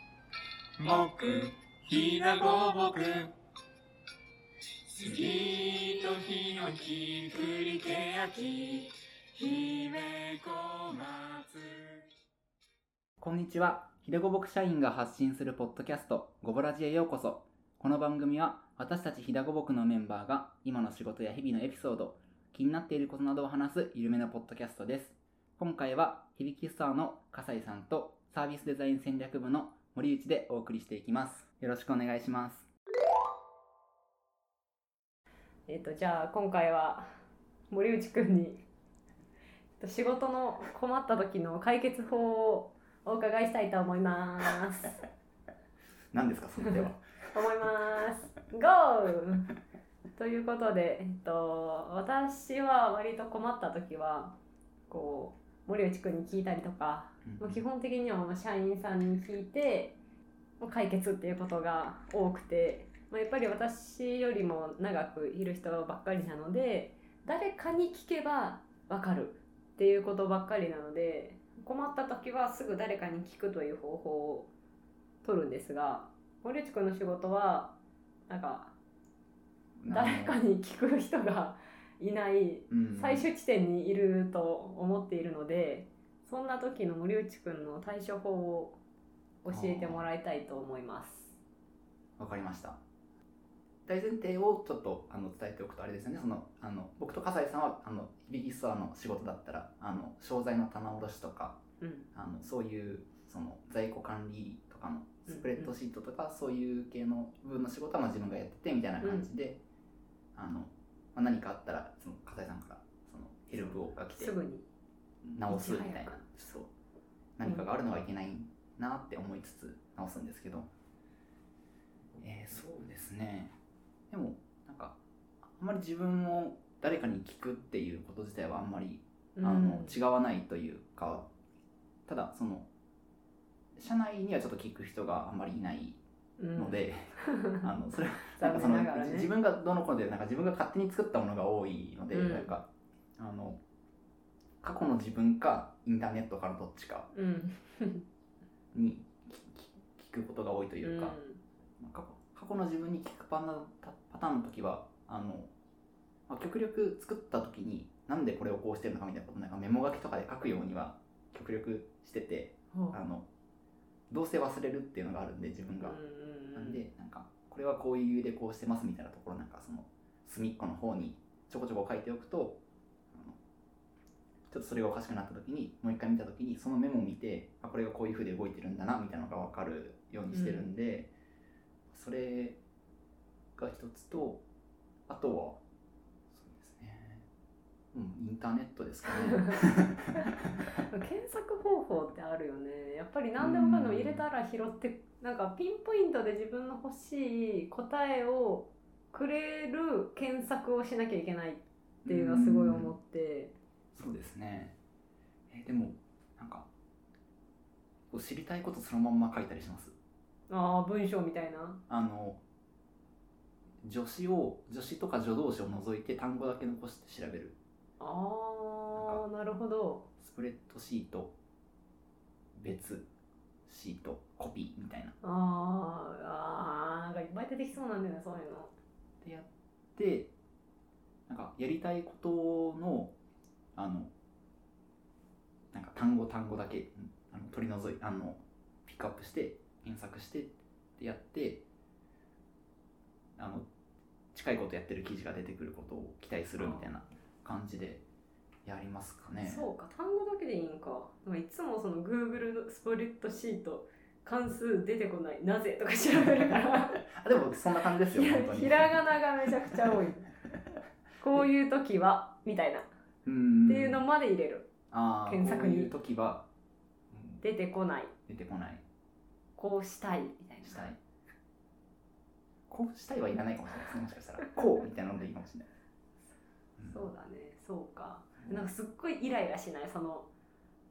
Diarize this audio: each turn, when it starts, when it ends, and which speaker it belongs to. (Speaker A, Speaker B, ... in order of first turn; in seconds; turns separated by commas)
Speaker A: 0.8-3.3, Speaker A: 4.9-12.0, Speaker B: 13.2-32.6, Speaker C: 35.7-37.0, Speaker C: 37.7-38.6, Speaker C: 39.8-45.0, Speaker B: 46.1-47.0, Speaker C: 47.3-49.5, Speaker C: 50.1-54.4, Speaker C: 54.9-60.0, Speaker B: 57.2-57.6, Speaker C: 60.6-74.5, Speaker C: 75.2-77.8, Speaker C: 78.3-78.7, Speaker B: 79.8-80.4, Speaker C: 79.9-88.8, Speaker B: 82.7-83.3, Speaker C: 89.4-91.4, Speaker B: 89.5-90.1, Speaker B: 92.2-92.8, Speaker B: 93.9-101.6, Speaker C: 101.8-102.1, Speaker B: 102.1-109.6, Speaker C: 105.3-105.7, Speaker C: 109.0-109.3, Speaker B: 110.3-114.3, Speaker C: 114.1-114.7, Speaker B: 115.2-116.7, Speaker C: 115.5-116.5, Speaker B: 117.4-120.7, Speaker C: 117.4-117.7, Speaker B: 122.2-123.5, Speaker B: 124.1-131.3, Speaker C: 129.3-130.0, Speaker B: 132.1-132.7, Speaker B: 133.8-136.0, Speaker C: 136.4-137.6, Speaker B: 136.6-142.7, Speaker C: 138.3-139.3, Speaker C: 142.1-142.6, Speaker B: 143.2-143.6, Speaker B: 144.6-147.1, Speaker C: 147.1-148.1, Speaker B: 148.7-151.2, Speaker C: 150.8-151.4, Speaker B: 151.8-155.5, Speaker B: 156.3-163.2, Speaker C: 162.7-163.0, Speaker B: 164.1-166.0, Speaker C: 165.8-166.8, Speaker B: 166.5-172.6, Speaker B: 173.1-173.4, Speaker B: 174.5-181.1, Speaker C: 180.3-180.7, Speaker B: 181.9-182.6, Speaker B: 183.6-184.4, Speaker B: 185.1-185.6, Speaker B: 186.3-187.2, Speaker B: 187.9-190.1, Speaker C: 189.0-189.6, Speaker C: 190.2-203.5, Speaker B: 193.4-194.3, Speaker B: 202.0-202.9, Speaker B: 203.9-204.8, Speaker B: 205.5-206.7, Speaker B: 208.1-209.9, Speaker C: 210.5-211.8, Speaker B: 211.9-212.4, Speaker B: 213.8-217.6, Speaker C: 218.0-220.1, Speaker B: 218.9-219.2, Speaker B: 220.2-221.3, Speaker B: 222.5-223.1, Speaker B: 223.7-225.1, Speaker C: 225.2-228.7, Speaker B: 229.2-230.3, Speaker B: 231.3-233.1, Speaker B: 233.7-234.1, Speaker B: 235.7-241.6, Speaker B: 243.4-243.7, Speaker B: 244.3-248.0, Speaker C: 246.6-246.9, Speaker B: 248.6-249.7, Speaker C: 249.4-257.1, Speaker B: 257.1-259.0, Speaker C: 258.1-260.3, Speaker C: 261.2-262.9, Speaker B: 263.2-264.0, Speaker C: 263.6-264.7, Speaker B: 264.9-266.5, Speaker C: 265.2-265.9, Speaker B: 267.1-267.4, Speaker C: 267.4-268.1, Speaker B: 268.3-268.8, Speaker C: 269.6-270.9, Speaker B: 270.6-271.0, Speaker B: 272.7-275.6, Speaker B: 276.8-277.1, Speaker C: 276.8-280.3, Speaker B: 278.4-278.7